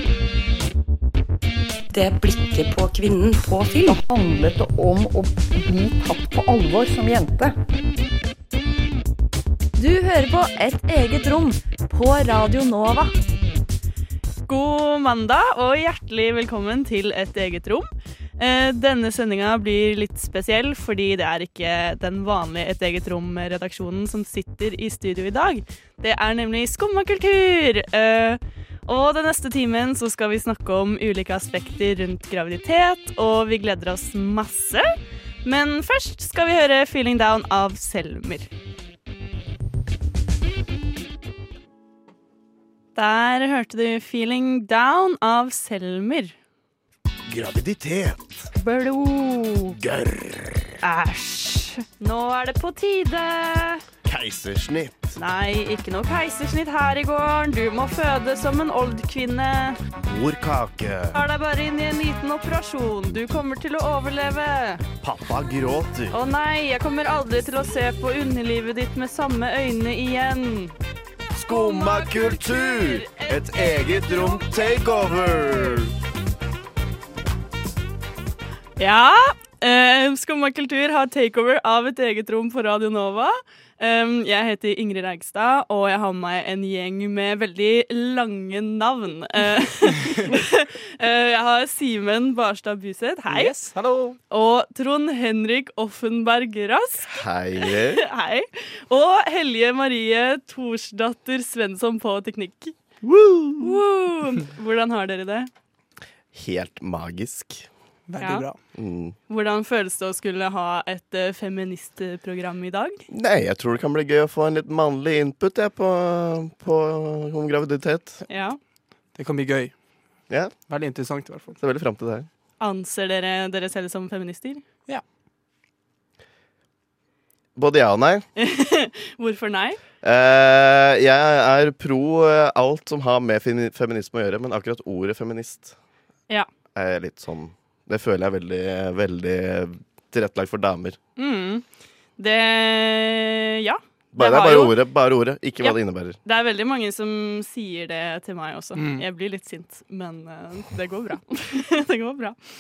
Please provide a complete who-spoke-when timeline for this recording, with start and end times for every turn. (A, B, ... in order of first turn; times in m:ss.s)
0:01.9-0:04.0 A
0:03.8-0:07.6 B
0:09.8-0:13.2 C
0:14.5-0:34.9 D
0:35.4-0:38.5 D
0:43.0-0:46.4 D
0:47.3-0:48.5 E
0:48.6-0:49.6 C
0:49.8-0:50.8 E
0:50.8-0:53.8 D
0:54.0-0:55.0 E
0:55.2-0:59.8 D
1:00.0-1:01.2 E
1:01.1-1:04.8 D
1:05.0-1:06.2 E
1:06.1-1:10.8 D
1:11.4-1:15.9 E
1:11.5-1:14.9 D
1:18.8-1:33.6 D
1:33.3-1:34.2 F
1:34.3-1:42.8 D
1:37.1-1:38.0 E
1:43.0-1:43.8 E
1:43.6-1:45.5 D
1:46.3-1:47.7 E
1:48.1-1:48.6 F
1:48.2-1:48.5 D
1:48.8-1:49.2 E
1:49.3-1:53.0 D
1:53.1-1:58.2 E
1:58.3-1:58.6 D
1:59.2-1:59.7 F
2:00.3-2:00.6 E
2:00.7-2:01.6 F
2:01.6-2:02.3 E
2:02.6-2:04.6 D
2:07.6-2:08.3 E
2:08.4-2:09.8 D
2:10.0-2:15.8 E
2:16.8-2:21.0 E
2:21.2-2:21.6 D
2:22.2-2:24.8 D
2:24.1-2:26.2 E
2:25.6-2:32.4 D
2:28.8-2:29.0 F